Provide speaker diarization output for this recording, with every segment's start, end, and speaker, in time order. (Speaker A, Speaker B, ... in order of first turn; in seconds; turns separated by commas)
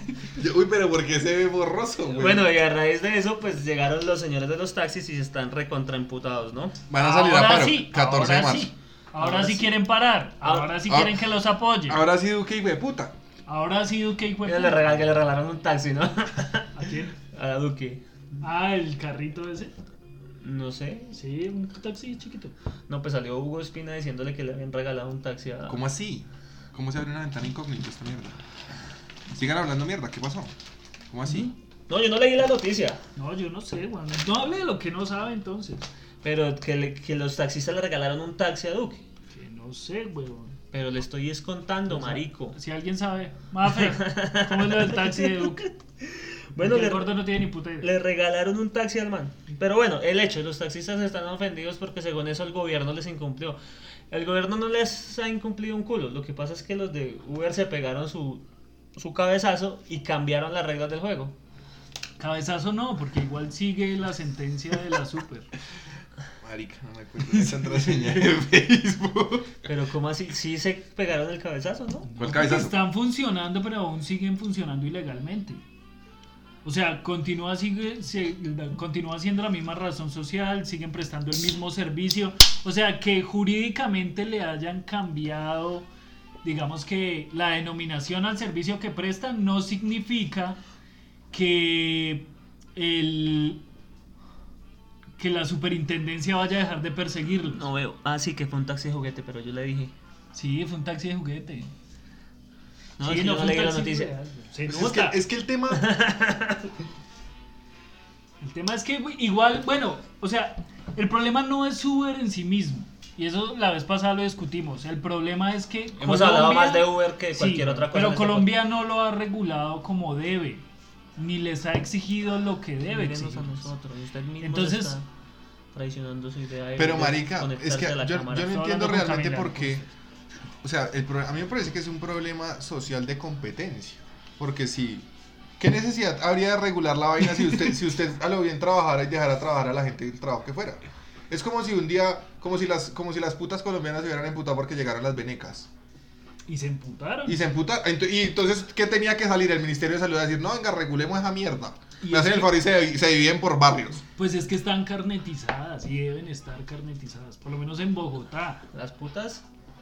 Speaker A: 0.3-2.5, Speaker B: 2.2-6.8, Speaker A: 6.9-8.7, Speaker C: 7.0-12.0, Speaker B: 9.2-9.7, Speaker B: 10.4-10.8, Speaker A: 10.8-11.2, Speaker A: 11.8-13.1, Speaker C: 13.5-14.9, Speaker B: 14.4-18.0, Speaker C: 16.7-17.1, Speaker C: 18.4-19.7, Speaker B: 20.4-21.1, Speaker C: 21.1-22.5, Speaker B: 22.9-25.8, Speaker A: 25.7-28.4, Speaker A: 29.3-30.5, Speaker A: 31.1-31.5, Speaker B: 31.9-33.0, Speaker C: 33.1-35.9, Speaker B: 36.2-39.0, Speaker C: 39.3-40.5, Speaker B: 40.7-42.6, Speaker C: 41.9-45.7, Speaker B: 43.7-47.2, Speaker C: 46.6-47.9, Speaker B: 47.8-53.6, Speaker B: 54.1-58.4, Speaker B: 59.0-61.3, Speaker C: 62.2-65.5, Speaker A: 66.4-69.6, Speaker B: 69.6-72.1, Speaker C: 72.1-75.6, Speaker A: 72.2-72.8, Speaker C: 76.6-85.9, Speaker C: 86.4-90.6, Speaker C: 91.3-93.6, Speaker C: 95.2-97.6, Speaker B: 97.5-99.9, Speaker C: 100.3-101.7, Speaker B: 103.0-104.1, Speaker C: 103.0-105.2, Speaker A: 104.7-105.8, Speaker B: 105.7-106.7, Speaker C: 108.4-120.6, Speaker B: 116.0-118.6, Speaker C: 121.2-123.7, Speaker B: 122.8-125.0, Speaker C: 124.4-125.0, Speaker B: 125.7-128.6, Speaker A: 126.8-129.8, Speaker C: 128.4-129.8, Speaker A: 130.6-135.1, Speaker A: 135.6-145.7, Speaker C: 146.5-147.4, Speaker A: 147.3-154.0, Speaker C: 152.0-152.5, Speaker C: 154.2-158.6, Speaker B: 158.7-159.4